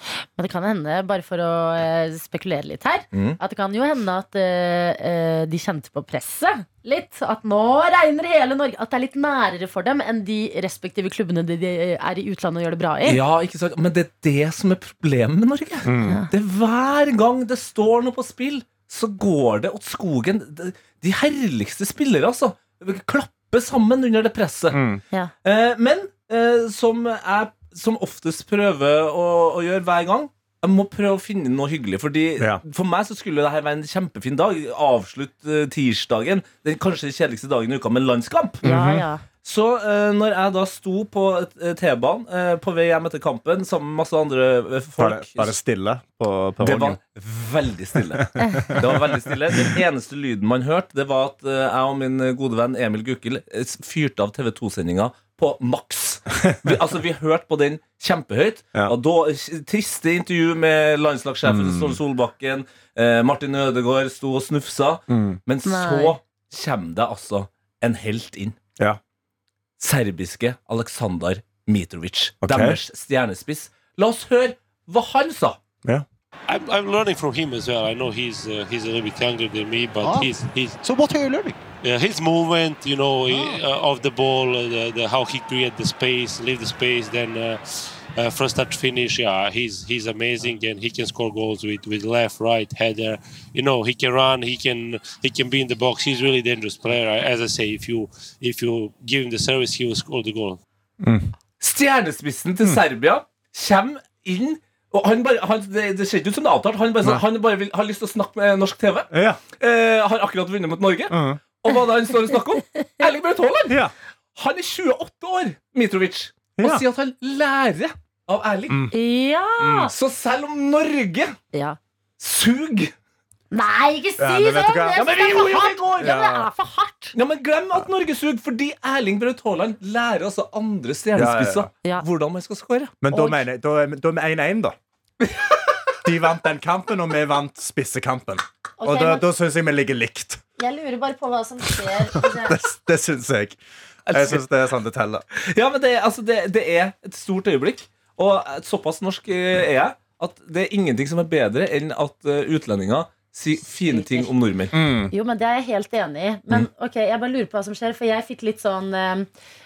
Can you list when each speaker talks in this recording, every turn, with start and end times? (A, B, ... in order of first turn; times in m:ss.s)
0:00.4-0:13.2 A
0:03.1-0:03.4 B
0:13.0-0:24.8 B
0:15.8-0:16.2 C
0:16.0-0:16.3 A
0:24.7-0:25.0 C
0:25.4-0:38.6 B
0:38.6-0:39.0 C
0:38.6-0:39.2 A
0:39.4-0:45.6 B
0:45.0-0:47.0 C
0:46.6-1:08.6 B
0:48.2-0:49.0 C
0:48.4-0:48.7 A
0:49.5-0:49.8 C
1:01.4-1:02.0 C
1:05.1-1:05.4 C
1:05.6-1:06.2 A
1:09.8-1:15.6 B
1:12.4-1:12.8 C
1:16.5-1:20.8 D
1:20.0-1:21.6 E
1:21.8-1:27.6 D
1:23.3-1:23.6 E
1:28.2-1:40.6 D
1:41.0-1:41.3 C
1:41.6-1:53.8 B
1:49.1-1:49.4 C
1:51.1-1:51.4 C
1:53.7-1:53.9 C
1:54.4-1:58.8 B
1:56.6-1:56.8 C
1:58.7-1:58.9 C
1:58.9-1:59.9 A
1:59.6-1:59.9 C
1:59.9-2:01.4 B
2:01.5-2:01.8 A
2:02.2-2:02.9 B
2:03.5-2:07.1 A
2:04.2-2:05.2 C
2:05.0-2:06.2 B
2:06.0-2:06.5 C
2:07.1-2:12.9 B
2:11.1-2:11.7 C
2:13.0-2:14.8 C
2:13.1-2:13.4 A
2:16.0-2:20.4 C
2:18.8-2:19.2 A
2:20.6-2:22.6 A
2:22.1-2:23.6 C
2:24.1-2:24.4 B
2:24.1-2:25.2 C
2:25.4-2:34.8 B
2:33.9-2:34.3 A
2:34.7-2:35.1 C
2:35.1-2:39.3 A